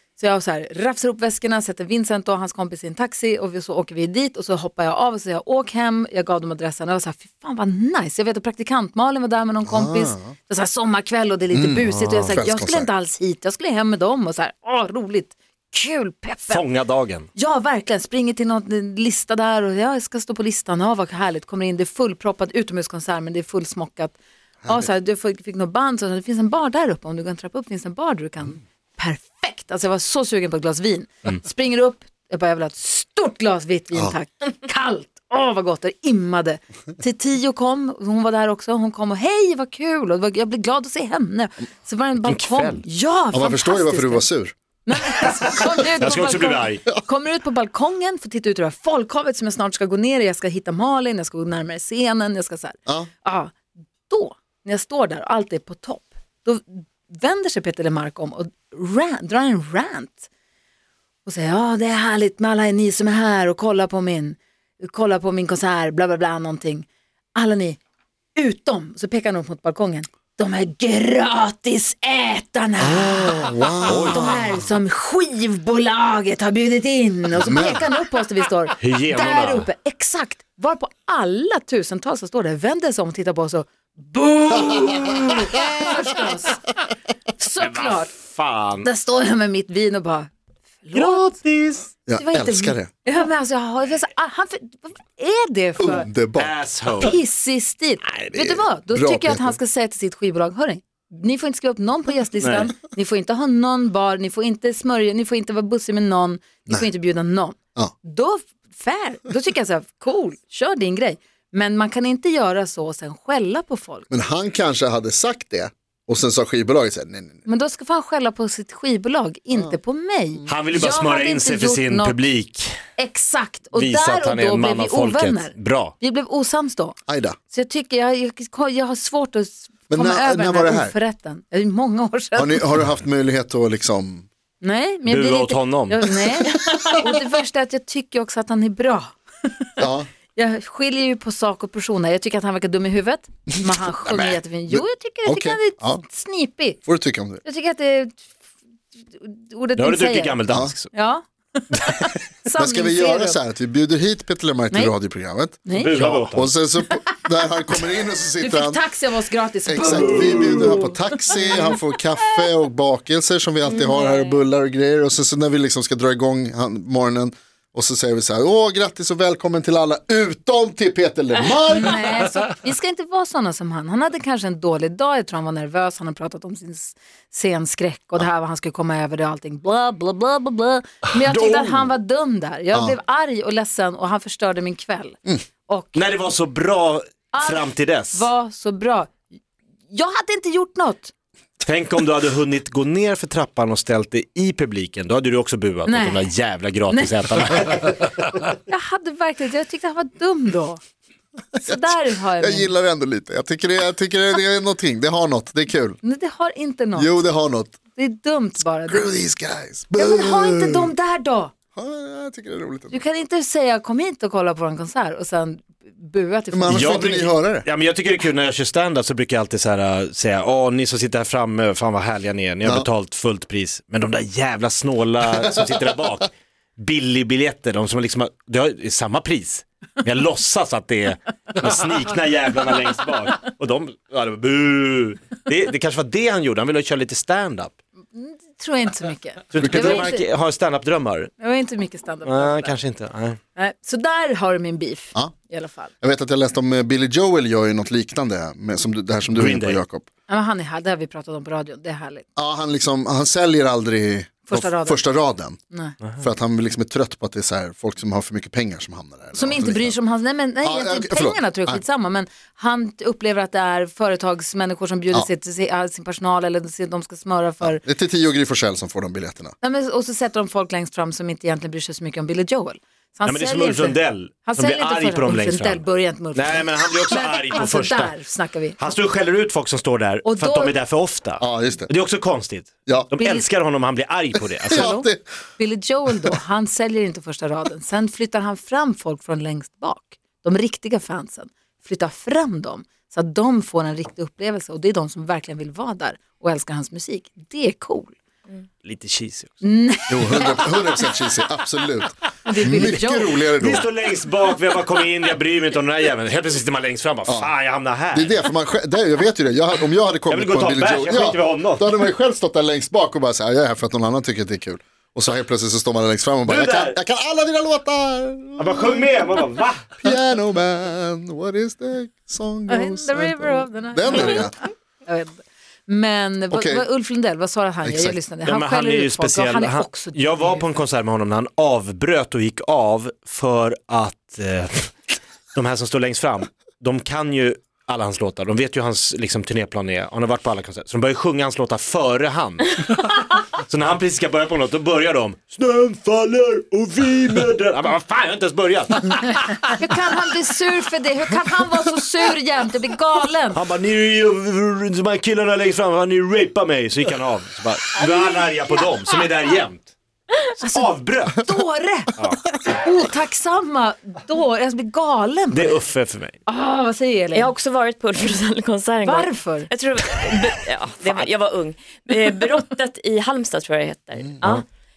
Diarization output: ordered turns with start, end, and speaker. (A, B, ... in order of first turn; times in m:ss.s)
0:00.2-0:16.6 A
0:09.6-0:10.3 B
0:11.5-0:12.9 B
0:11.9-0:12.4 C
0:16.5-0:17.3 C
0:17.3-0:44.2 A
0:42.2-0:42.8 C
0:43.3-0:44.5 B
0:44.8-0:53.6 A
0:46.0-0:46.8 C
0:54.1-1:00.3 A
1:01.2-1:07.8 A
1:08.4-1:26.6 A
1:12.8-1:14.6 B
1:13.9-1:14.4 C
1:17.3-1:17.9 B
1:18.8-1:19.7 C
1:27.4-1:28.1 A
1:27.6-1:28.9 C
1:28.8-1:30.3 A
1:30.8-1:31.3 A
1:30.9-1:31.9 C
1:32.1-1:32.9 B
1:32.1-1:36.1 A
1:35.8-1:36.6 B
1:36.4-1:37.1 C
1:37.0-1:54.1 A
1:38.2-1:39.6 B
1:42.4-1:42.7 C
1:54.1-1:57.4 B
1:57.4-2:02.2 A
2:00.5-2:02.8 C
2:03.0-2:07.0 A
2:03.7-2:05.9 C
2:07.1-2:07.4 B
2:07.5-2:12.7 A
2:09.9-2:10.9 B
2:12.4-2:14.3 B
2:14.6-2:19.1 A
2:15.1-2:16.1 C
2:19.8-2:20.1 B
2:20.3-2:26.8 A
2:23.6-2:26.0 B
2:26.8-2:27.4 B
2:27.4-2:28.2 A
2:29.1-2:30.4 A
2:29.8-2:30.9 C
2:30.9-2:33.4 A
2:32.4-2:38.8 B
2:35.6-2:36.2 A
2:35.7-2:36.5 C
2:38.4-2:41.8 A
2:39.6-2:52.1 B
2:39.9-2:40.8 C
2:51.7-3:06.0 A
3:01.2-3:01.9 C
3:05.9-3:08.3 C
3:07.3-3:09.2 A
3:09.9-3:11.1 A
3:11.6-3:18.0 C
3:15.8-3:16.3 A
3:16.9-3:18.0 A
3:18.6-3:20.8 A
3:21.5-3:26.0 B
3:21.6-3:22.7 A
3:26.0-3:27.2 A
3:26.9-3:27.8 B
3:27.9-3:29.0 A
3:28.9-3:30.9 B
3:29.9-3:31.5 A
3:31.7-3:33.0 B
3:32.9-3:37.3 A
3:36.5-3:37.6 B
3:36.7-3:57.7 C
3:58.1-4:00.2 A
3:59.5-4:01.3 C
3:59.6-4:00.2 B
4:01.4-4:02.8 A
4:02.2-4:03.4 C
4:03.6-4:05.9 A
4:06.0-4:10.1 B
4:09.3-4:09.8 C
4:10.3-4:12.2 A
4:12.4-4:15.6 B
4:14.5-4:15.1 A
4:15.7-4:16.0 A
4:16.2-4:20.0 B
4:19.3-4:27.8 A
4:20.6-4:21.8 B
4:27.6-4:29.5 B
4:29.6-4:38.9 A
4:33.2-4:38.1 C
4:38.8-4:44.9 C
4:40.2-4:40.7 A
4:41.4-4:41.9 B
4:42.9-4:43.2 B
4:43.1-4:43.5 A
4:44.6-4:45.2 B
4:44.7-4:58.1 A
4:58.8-4:59.6 C
4:59.6-5:01.1 A
5:00.1-5:03.9 B
5:02.5-5:03.4 A
5:03.6-5:08.4 C
5:08.1-5:19.3 B
5:10.3-5:12.0 C
5:16.4-5:17.0 C
5:18.6-5:19.9 C
5:20.0-5:24.6 B
5:22.7-5:30.7 A
5:26.5-5:26.8 B
5:27.8-5:28.2 B
5:28.4-5:49.7 C
5:49.7-5:53.6 A
5:53.5-5:59.9 C
6:00.5-6:01.4 C
6:00.6-6:05.8 A
6:02.2-6:02.4 C
6:05.5-6:06.4 C
6:06.4-6:07.5 A
6:07.3-6:14.6 D
6:09.0-6:09.7 A
6:11.0-6:11.3 C